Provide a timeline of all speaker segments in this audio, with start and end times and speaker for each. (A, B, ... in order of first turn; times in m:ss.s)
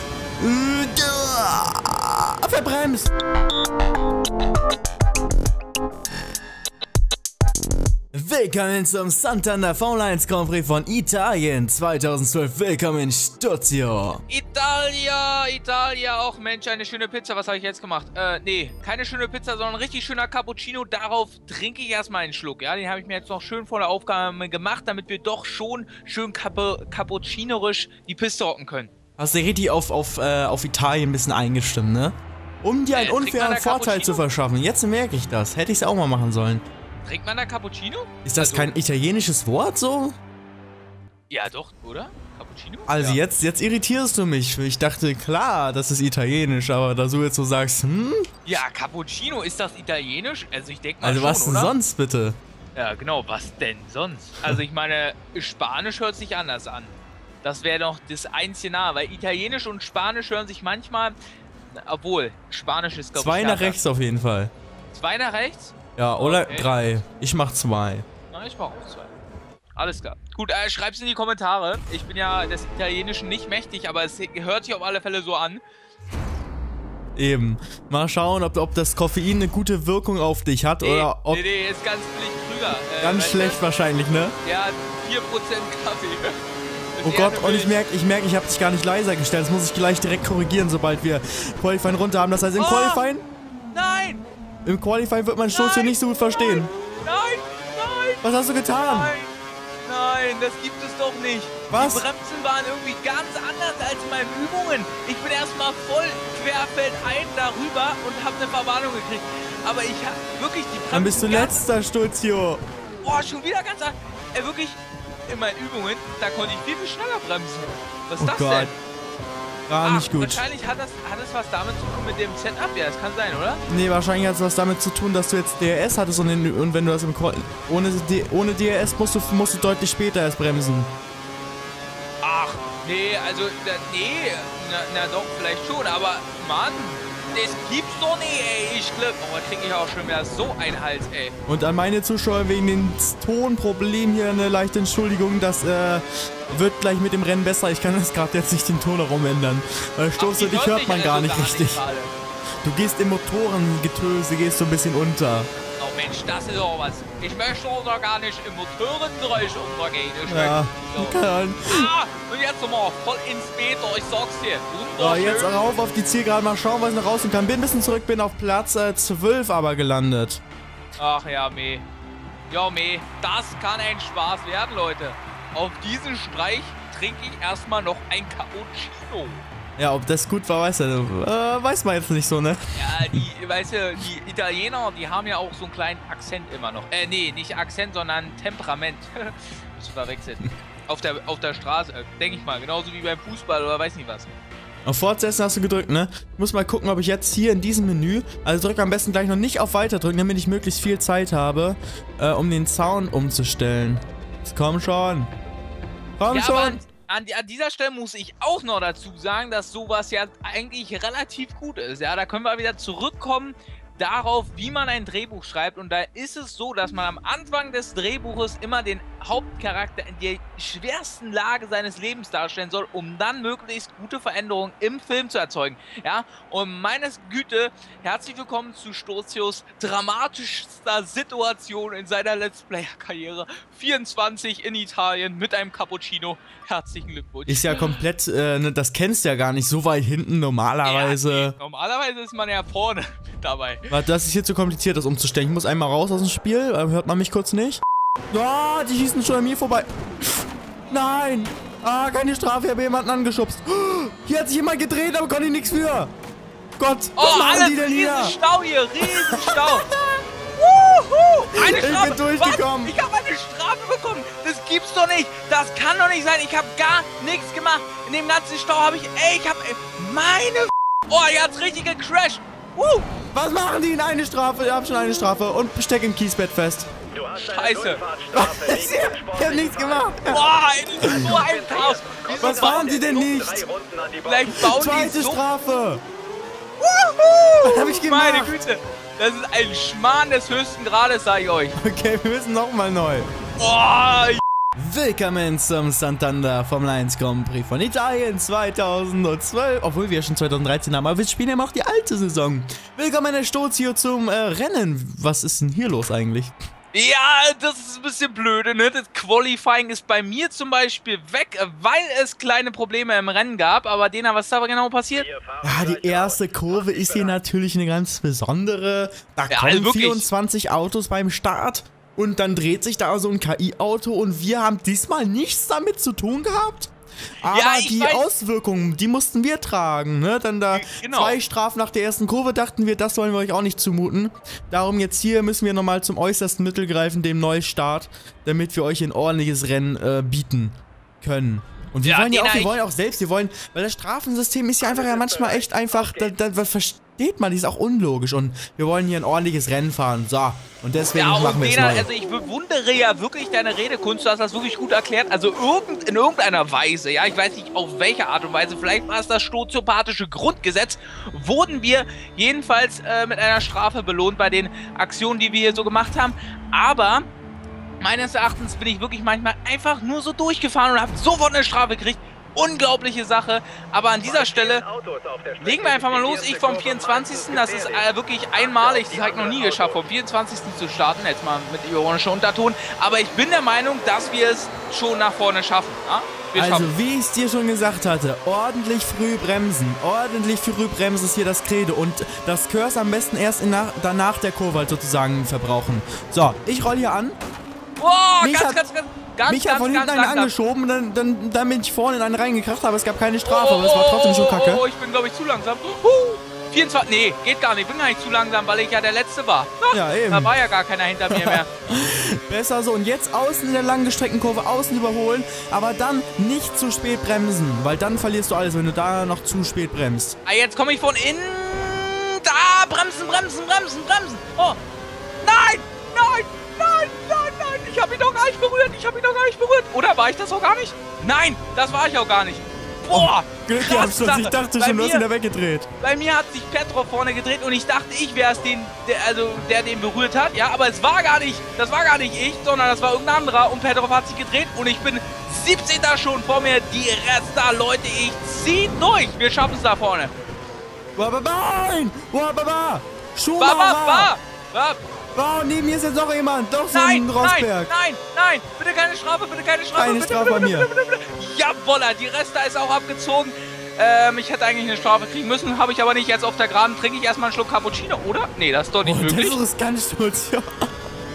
0:00.4-0:03.1 A
0:08.1-0:14.2 A
0:14.3-0:28.9 B
0:29.2-0:36.6 A
0:32.9-0:34.2 B
0:37.0-0:38.7 B
0:38.2-0:40.2 A
0:41.3-0:43.2 B
0:42.9-0:48.2 A
0:48.4-0:51.7 B
0:51.0-0:52.4 A
0:52.7-1:01.2 B
1:01.7-1:03.8 B
1:03.1-1:04.5 A
1:04.9-1:06.7 B
1:06.0-1:08.0 A
1:08.3-1:09.1 B
1:09.7-1:15.6 B
1:17.2-1:21.4 A
1:20.8-1:23.6 B
1:23.0-1:24.3 A
1:24.4-1:26.4 B
1:27.0-1:27.8 B
1:27.0-1:33.2 A
1:32.6-1:33.0 B
1:33.7-1:34.2 B
1:34.6-1:36.7 A
1:35.5-1:38.2 B
1:38.2-1:39.1 A
1:38.8-1:39.3 B
1:39.8-1:51.6 B
1:41.7-1:42.0 A
1:50.9-1:52.6 A
1:53.0-1:58.7 B
1:58.2-1:58.7 A
1:59.7-2:00.4 A
1:59.8-2:03.6 B
2:03.7-2:10.9 A
2:12.2-2:21.4 B
2:21.5-2:31.8 A
2:30.2-2:32.1 B
2:32.6-2:35.5 A
2:35.7-2:45.6 B
2:40.3-2:41.9 A
2:45.0-2:50.4 A
2:51.0-2:51.9 B
2:52.5-2:59.4 B
2:59.8-3:03.2 A
3:02.7-3:14.3 B
3:14.8-3:25.3 A
3:26.2-3:26.8 A
3:26.3-3:58.0 B
3:57.5-4:01.5 A
4:00.8-4:03.9 B
4:03.9-4:09.9 A
4:10.9-4:16.1 A
4:16.8-4:18.4 A
4:17.2-4:19.9 B
4:19.0-4:20.2 A
4:20.5-4:33.1 B
4:21.5-4:23.0 A
4:33.3-4:36.9 A
4:37.1-4:40.5 C
4:37.4-4:38.0 B
4:38.3-4:41.4 A
4:40.3-4:43.4 B
4:41.0-4:44.5 C
4:42.4-4:43.6 A
4:44.2-4:45.4 B
4:44.5-4:46.0 A
4:46.8-4:51.8 B
4:47.6-4:48.5 A
4:51.8-4:53.3 A
4:53.6-4:54.4 B
4:54.8-5:06.6 A
5:06.9-5:15.2 B
5:15.1-5:17.4 C
5:15.6-5:52.1 A
5:19.5-5:20.3 B
5:27.4-5:28.3 B
5:30.7-5:31.4 B
5:42.0-5:42.8 B
5:44.8-5:46.3 C
5:51.1-6:07.3 B
6:08.0-6:14.8 B
6:14.2-6:20.0 C
6:15.6-6:26.9 B
6:26.5-6:37.4 A
6:38.0-6:40.5 B
6:38.4-6:38.8 A
6:39.4-6:44.8 A
6:43.4-6:51.7 B
6:49.9-6:50.5 A
6:51.3-7:00.4 A
7:00.4-7:04.8 B
7:05.4-7:15.2 B
7:13.1-7:15.9 A
7:16.0-7:30.3 B
7:31.2-7:34.3 A
7:33.6-7:35.0 B
7:35.3-7:37.9 A
7:36.9-7:49.6 B
7:39.9-7:40.9 A
7:49.0-7:50.8 A